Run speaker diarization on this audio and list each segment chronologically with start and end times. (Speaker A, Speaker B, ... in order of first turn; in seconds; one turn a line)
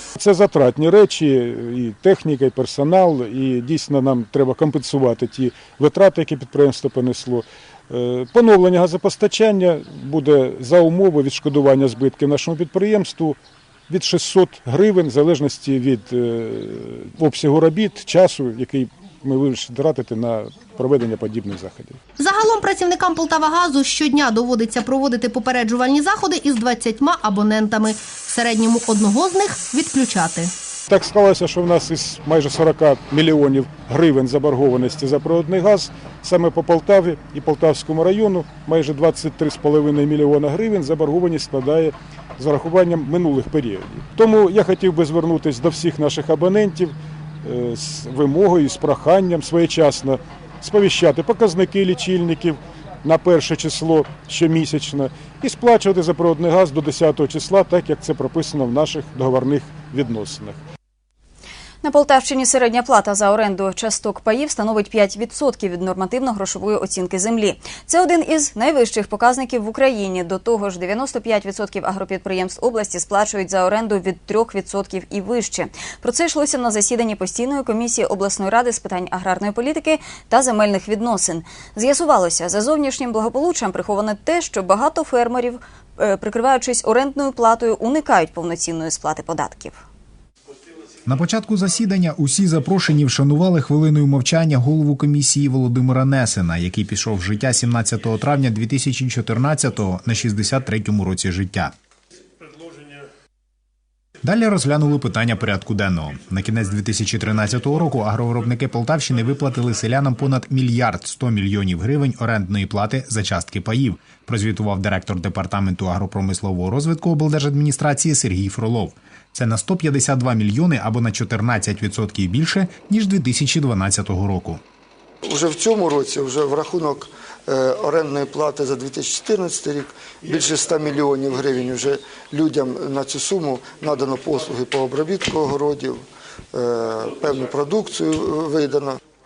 Speaker A: 0.2-13.4
Speaker A: 13.9-22.0
Speaker B: 22.2-30.5
Speaker A: 30.9-60.6
Speaker C: 61.8-89.8
Speaker D: 91.0-101.7
Speaker D: 104.2-124.6
Speaker E: 125.2-139.0